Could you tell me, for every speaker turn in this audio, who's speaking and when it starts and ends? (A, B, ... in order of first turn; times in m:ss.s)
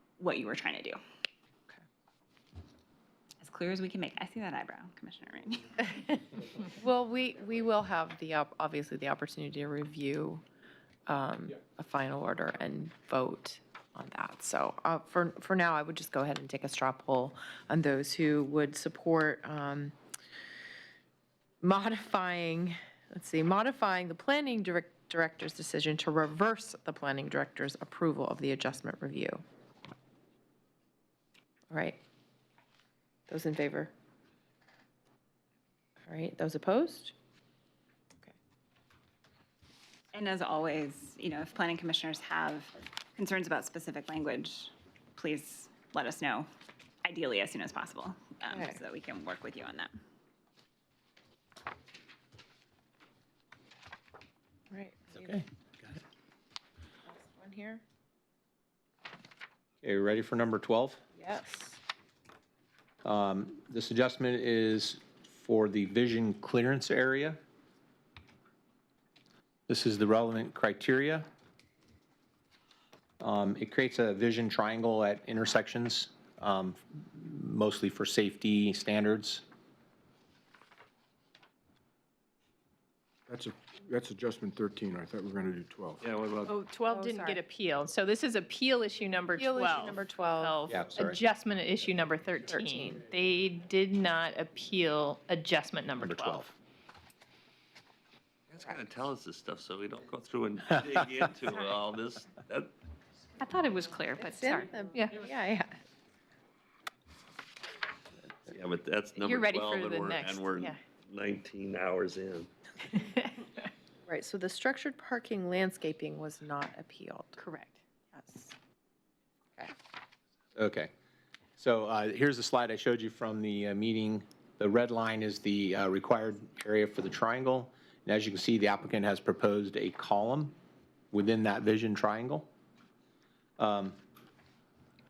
0:00.2-0:01.0 A
0:03.4-0:06.2 A
0:06.8-0:10.4 B
0:11.1-0:20.0 B
0:21.6-0:29.4 B
0:31.7-0:32.0 B
0:33.3-0:33.9 B
0:36.1-0:37.1 B
0:40.1-0:46.5 A
0:47.0-0:49.9 A
0:48.5-0:48.8 B
0:54.7-0:55.4 B
0:55.1-0:56.0 C
0:57.1-0:57.8 B
0:59.8-1:01.0 C
1:01.2-1:01.8 B
1:03.0-1:07.4 C
1:09.7-1:11.3 C
1:13.2-1:19.4 C
1:23.3-1:26.0 D
1:26.0-1:26.5 E
1:26.5-1:36.4 F
1:26.9-1:27.4 B
1:29.3-1:30.7 B
1:30.7-1:31.2 C
1:32.5-1:33.0 B
1:36.0-1:36.5 C
1:38.5-1:42.7 E
1:43.4-1:45.2 F
1:44.2-1:45.8 B
1:48.5-1:52.5 E
1:49.2-1:50.5 F
1:53.0-1:53.3 F
1:54.1-1:57.4 B
1:57.4-1:57.8 F
1:58.2-1:58.5 B
2:00.6-2:00.9 C
2:01.6-2:10.6 C
2:11.1-2:12.5 C
2:13.6-2:14.0 C